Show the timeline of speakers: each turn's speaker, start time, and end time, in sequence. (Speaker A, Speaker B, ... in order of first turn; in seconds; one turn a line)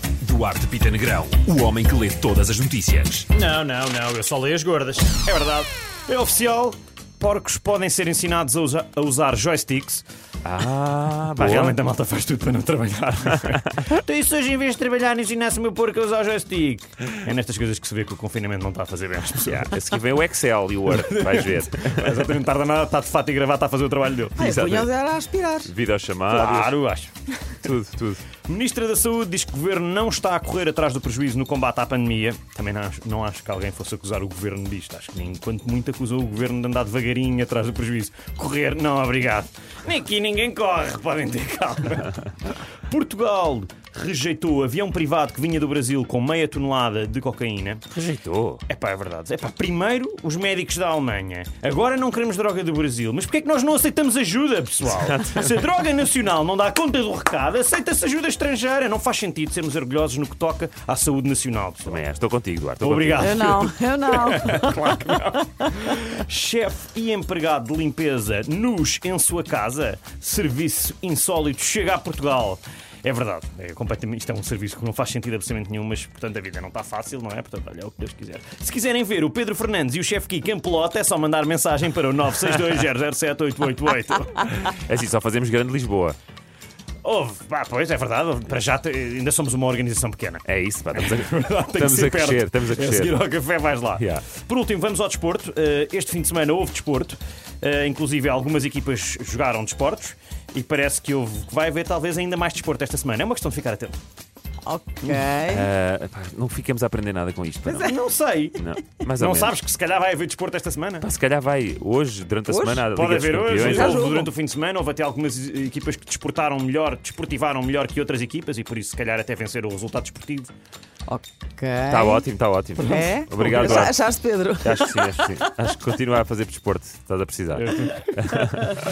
Speaker A: 0.2-3.3
Speaker B: 3.3-10.1
Speaker A: 10.4-11.8
Speaker B: 11.4-19.7
Speaker A: 19.5-22.3
Speaker B: 20.9-24.5
Speaker A: 24.4-24.9
Speaker C: 24.4-25.7
Speaker A: 25.6-26.8
Speaker B: 26.3-27.7
Speaker A: 27.6-28.2
Speaker B: 28.4-42.3
Speaker B: 42.9-47.9
Speaker A: 47.9-48.6
Speaker B: 48.7-62.0
Speaker A: 61.9-63.4
Speaker B: 62.8-84.8
Speaker C: 63.2-65.0
Speaker A: 84.7-86.2
Speaker B: 87.0-104.0
Speaker A: 90.5-93.2
Speaker A: 94.0-94.2
Speaker C: 104.7-105.7
Speaker A: 105.5-108.0
Speaker B: 107.7-108.6
Speaker A: 108.5-109.5
Speaker B: 109.1-111.1
Speaker A: 111.0-114.1
Speaker C: 112.5-112.9
Speaker B: 112.9-120.5
Speaker C: 113.5-114.3
Speaker C: 121.1-122.3
Speaker A: 121.9-124.0
Speaker B: 122.8-123.8
Speaker C: 122.8-125.4
Speaker A: 124.6-128.8
Speaker B: 127.6-128.1